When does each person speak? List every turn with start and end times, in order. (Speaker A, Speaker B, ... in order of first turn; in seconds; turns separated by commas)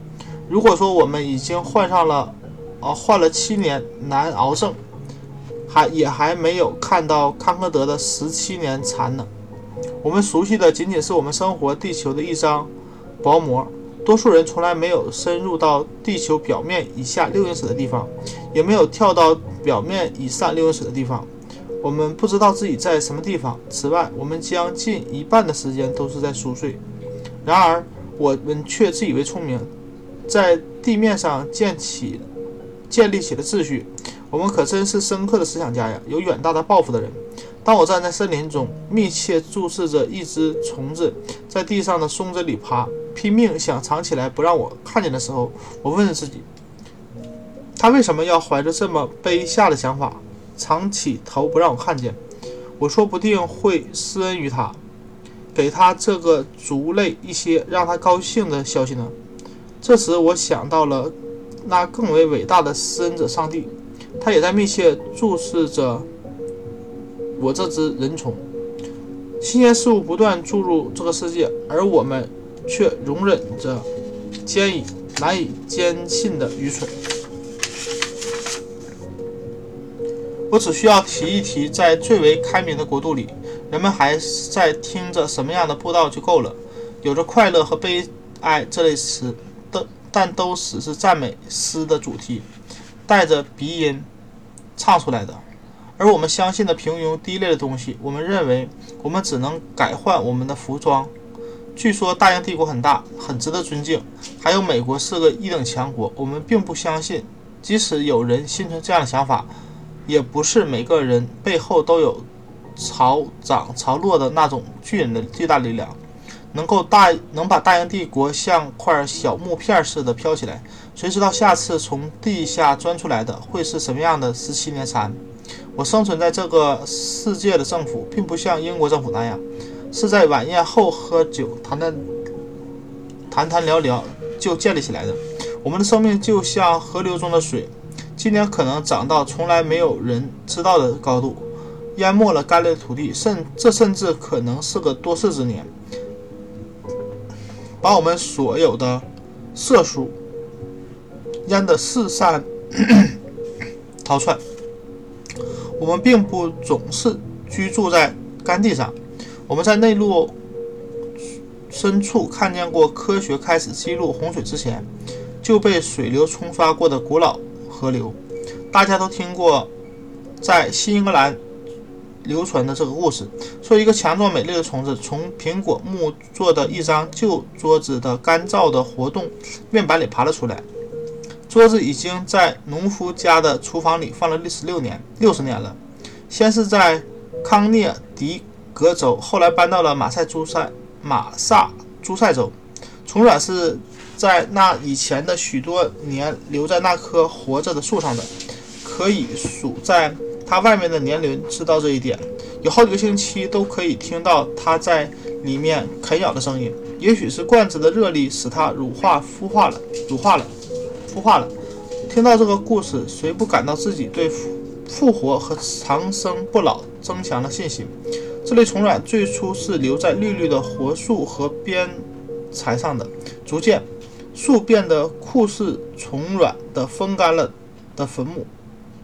Speaker A: 0.5-4.8, Speaker A: 5.7-9.3, Speaker A: 10.0-12.7, Speaker A: 13.2-21.3, Speaker A: 21.8-26.8, Speaker A: 27.4-29.7, Speaker A: 30.3-32.3, Speaker A: 32.9-46.5, Speaker A: 47.8-52.2, Speaker A: 52.8-54.8, Speaker A: 55.5-59.1, Speaker A: 59.8-66.1, Speaker A: 67.4-68.5, Speaker A: 69.4-73.9, Speaker A: 74.5-77.0, Speaker A: 80.5-92.5, Speaker A: 93.1-94.1, Speaker A: 94.8-95.4, Speaker A: 96.0-101.1, Speaker A: 101.8-109.5, Speaker A: 110.1-116.0, Speaker A: 116.5-125.2, Speaker A: 125.8-132.1, Speaker A: 133.3-145.7, Speaker A: 147.8-150.2, Speaker A: 151.5-153.2, Speaker A: 154.0-154.4, Speaker A: 155.8-158.9, Speaker A: 159.5-160.3, Speaker A: 161.7-164.9, Speaker A: 165.4-168.2, Speaker A: 168.7-169.7, Speaker A: 170.4-171.4, Speaker A: 172.2-180.7, Speaker A: 181.5-185.8, Speaker A: 186.3-198.3, Speaker A: 198.8-210.5, Speaker A: 211.1-211.5, Speaker A: 212.1-228.5